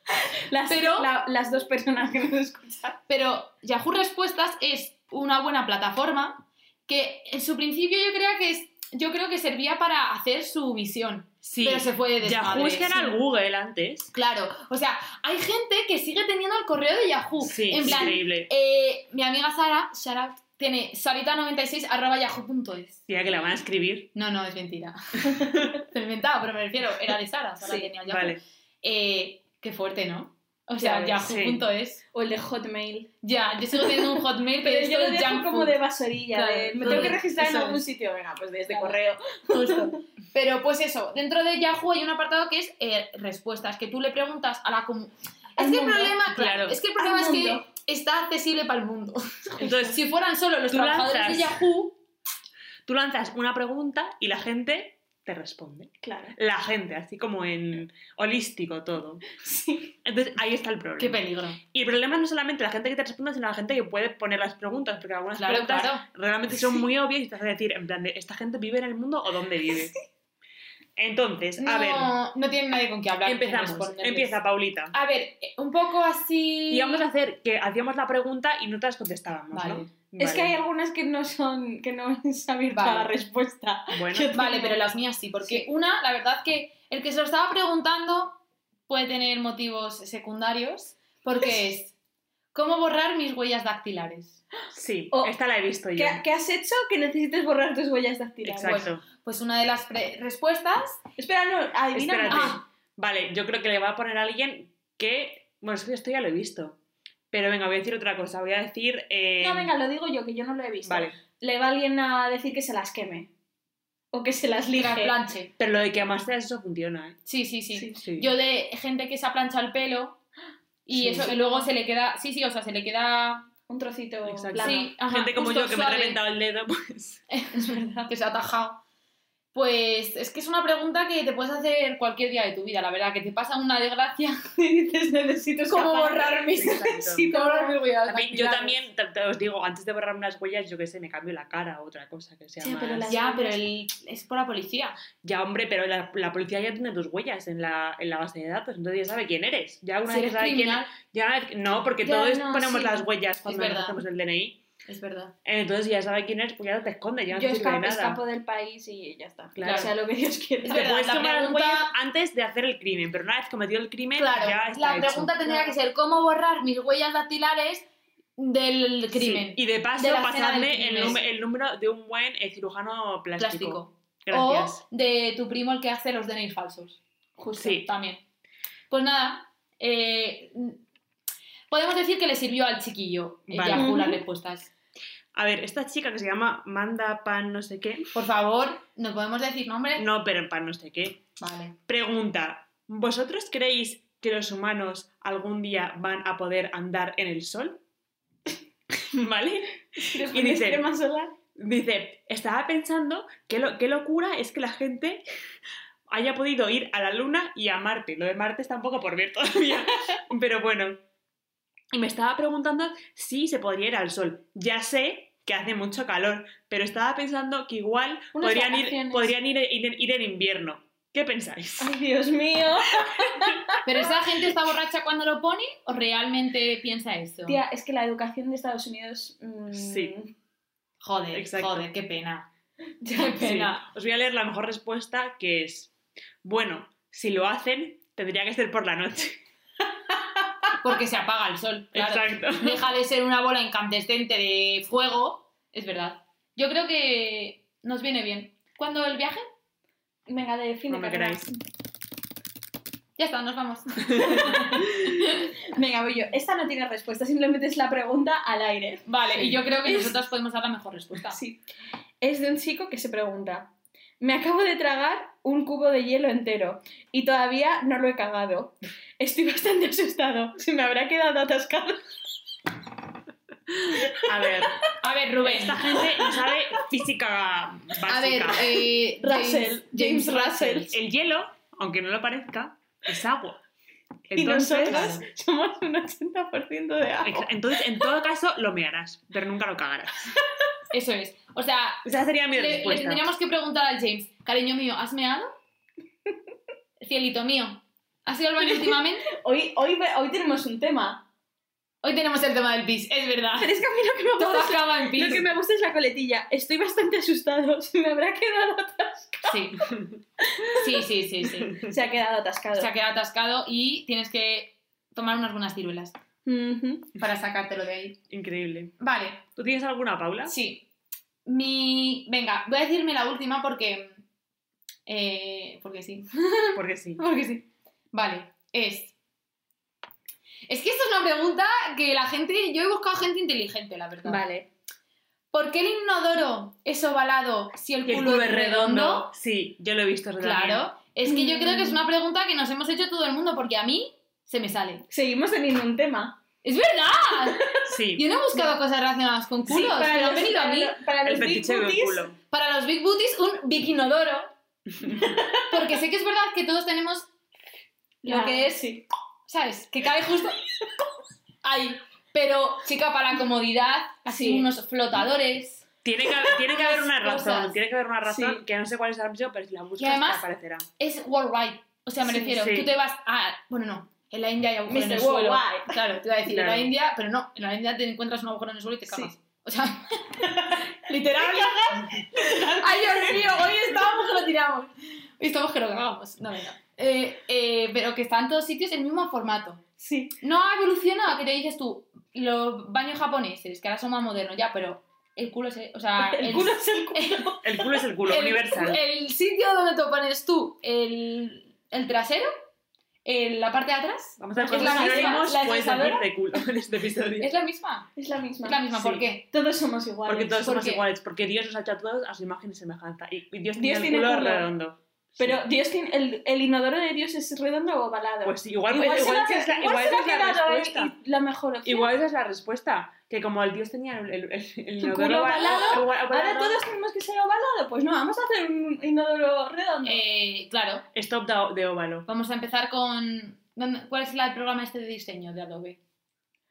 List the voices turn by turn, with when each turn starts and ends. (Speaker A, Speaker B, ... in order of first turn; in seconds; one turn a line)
Speaker A: 0.5-3.0
Speaker B: 0.7-1.1
Speaker B: 3.1-13.2
Speaker C: 11.4-14.1
Speaker B: 14.1-23.0
Speaker C: 17.4-18.5
Speaker C: 23.1-24.1
Speaker B: 24.1-32.0
Speaker A: 27.6-27.9
Speaker C: 28.1-28.4
Speaker A: 30.8-31.1
Speaker C: 31.2-31.7
Speaker A: 32.1-33.1
Speaker B: 33.2-35.8
Speaker A: 33.8-40.0
Speaker B: 36.3-37.8
Speaker C: 36.8-37.2
Speaker B: 38.7-39.0
Speaker B: 39.5-52.0
Speaker A: 45.6-46.2
Speaker C: 46.3-46.8
Speaker A: 47.0-47.7
Speaker C: 49.6-50.0
Speaker C: 50.7-51.6
Speaker C: 52.9-59.3
Speaker A: 56.0-56.4
Speaker A: 59.4-59.9
Speaker C: 60.0-70.0
Speaker B: 61.0-61.6
Speaker B: 65.4-66.0
Speaker C: 71.0-72.1
Speaker B: 71.6-74.4
Speaker C: 73.2-74.9
Speaker B: 74.9-77.1
Speaker C: 76.7-80.6
Speaker B: 79.5-79.9
Speaker A: 80.2-84.8
Speaker B: 82.7-83.1
Speaker C: 83.9-84.4
Speaker B: 84.3-91.9
Speaker B: 92.5-94.4
Speaker C: 94.7-96.2
Speaker A: 95.9-98.8
Speaker C: 98.4-99.0
Speaker B: 98.6-101.0
Speaker A: 101.2-102.6
Speaker C: 101.9-106.8
Speaker B: 102.3-102.6
Speaker C: 107.3-109.7
Speaker A: 109.4-113.3
Speaker C: 110.8-111.2
Speaker A: 114.1-115.2
Speaker B: 114.8-115.5
Speaker C: 115.6-117.2
Speaker B: 117.3-120.2
Speaker A: 117.7-118.0
Speaker C: 118.0-118.3
Speaker B: 120.9-123.5
Speaker C: 120.9-121.3
Speaker A: 121.2-121.7
Speaker A: 123.7-124.9
Speaker C: 124.2-127.2
Speaker B: 124.6-126.2
Speaker B: 127.3-128.8
Speaker A: 127.5-128.1
Speaker B: 129.5-134.4
Speaker A: 134.6-137.8
Speaker B: 135.7-138.8
Speaker C: 136.5-137.3
Speaker C: 138.1-143.1
Speaker A: 142.6-143.6
Speaker B: 143.1-145.0
Speaker C: 145.2-154.6
Speaker B: 150.1-150.9
Speaker B: 152.0-154.0
Speaker B: 154.9-155.3
Speaker C: 155.4-158.2
Speaker A: 157.3-161.0
Speaker C: 159.6-159.9
Speaker B: 159.6-159.9
Speaker B: 160.6-161.9
Speaker C: 160.7-165.5
Speaker B: 164.2-167.8
Speaker B: 168.4-171.2
Speaker C: 169.1-174.8
Speaker B: 173.4-177.0
Speaker A: 177.4-177.8
Speaker C: 177.6-177.9
Speaker B: 177.6-178.2
Speaker B: 178.9-180.8
Speaker B: 181.7-184.7
Speaker C: 183.5-183.9
Speaker A: 183.7-184.2
Speaker C: 185.3-188.1
Speaker B: 188.1-190.1
Speaker C: 190.0-191.2
Speaker B: 191.4-191.8
Speaker C: 191.9-197.8
Speaker C: 199.1-200.9
Speaker A: 200.0-201.4
Speaker C: 201.6-205.2
Speaker C: 206.1-211.0
Speaker C: 211.9-222.0
Speaker A: 218.3-219.3
Speaker A: 221.8-224.0
Speaker C: 223.0-223.6
Speaker B: 223.8-227.6
Speaker A: 227.5-230.3
Speaker C: 229.7-230.1
Speaker B: 231.0-232.5
Speaker C: 231.3-231.9
Speaker A: 233.0-233.5
Speaker B: 233.1-233.8
Speaker C: 233.4-235.9
Speaker C: 236.4-239.4
Speaker B: 240.8-249.4
Speaker C: 241.9-242.8
Speaker A: 250.3-251.6
Speaker C: 250.9-251.5
Speaker B: 253.2-254.8
Speaker A: 254.2-259.1
Speaker B: 259.1-261.4
Speaker A: 259.8-260.2
Speaker A: 261.3-261.6
Speaker A: 262.2-272.0
Speaker A: 273.9-274.8
Speaker C: 274.2-274.9
Speaker B: 275.0-276.0
Speaker C: 275.4-278.8
Speaker A: 275.9-276.9
Speaker B: 278.1-280.9
Speaker A: 278.6-280.9
Speaker C: 280.9-283.6
Speaker C: 284.3-285.2
Speaker A: 284.3-287.5
Speaker B: 284.9-285.2
Speaker C: 287.2-290.3
Speaker B: 290.9-295.5
Speaker C: 292.1-293.3
Speaker B: 297.0-299.3
Speaker A: 298.6-301.2
Speaker B: 302.0-303.8
Speaker A: 303.6-309.6
Speaker B: 304.4-305.4
Speaker B: 309.4-309.9
Speaker C: 309.9-310.2
Speaker A: 310.5-311.0
Speaker B: 310.7-311.8
Speaker C: 311.6-311.9
Speaker A: 311.8-312.9
Speaker B: 312.8-316.1
Speaker A: 316.4-317.1
Speaker B: 317.2-318.2
Speaker C: 318.3-318.9
Speaker B: 319.0-319.4
Speaker C: 319.6-320.5
Speaker B: 320.4-320.9
Speaker B: 321.5-324.2
Speaker B: 325.1-329.1
Speaker C: 326.8-327.2
Speaker B: 330.7-334.4
Speaker A: 334.2-334.7
Speaker B: 335.5-339.3
Speaker C: 338.1-340.9
Speaker B: 340.4-345.1
Speaker A: 341.3-342.0
Speaker A: 345.1-346.4
Speaker B: 346.6-351.0
Speaker A: 347.4-347.9
Speaker C: 347.9-348.3
Speaker A: 349.7-352.3
Speaker C: 351.2-352.4
Speaker B: 352.5-354.5
Speaker A: 355.1-356.0
Speaker B: 355.7-357.3
Speaker A: 358.2-359.1
Speaker B: 358.2-358.8
Speaker B: 359.5-360.6
Speaker B: 361.6-365.8
Speaker A: 364.3-364.7
Speaker C: 366.0-370.9
Speaker B: 366.6-367.8
Speaker A: 368.3-368.6
Speaker B: 370.0-370.4
Speaker B: 371.0-389.8
Speaker C: 372.5-372.9
Speaker A: 374.9-376.0
Speaker C: 376.5-376.9
Speaker A: 379.1-379.3
Speaker A: 380.4-384.5
Speaker A: 390.0-390.4
Speaker B: 390.4-397.6
Speaker A: 396.2-398.0
Speaker C: 397.6-399.0
Speaker B: 398.3-402.5
Speaker B: 403.2-405.5
Speaker C: 404.4-407.5
Speaker A: 404.6-406.3
Speaker B: 407.4-408.1
Speaker A: 408.2-408.9
Speaker B: 408.6-409.4
Speaker C: 408.9-409.3
Speaker A: 409.4-410.7
Speaker C: 410.3-415.6
Speaker B: 410.6-411.0
Speaker A: 413.8-414.7
Speaker A: 415.4-422.1
Speaker C: 418.4-421.1
Speaker C: 421.8-426.8
Speaker A: 425.0-430.2
Speaker B: 430.1-431.1
Speaker C: 431.1-432.3
Speaker B: 432.3-436.0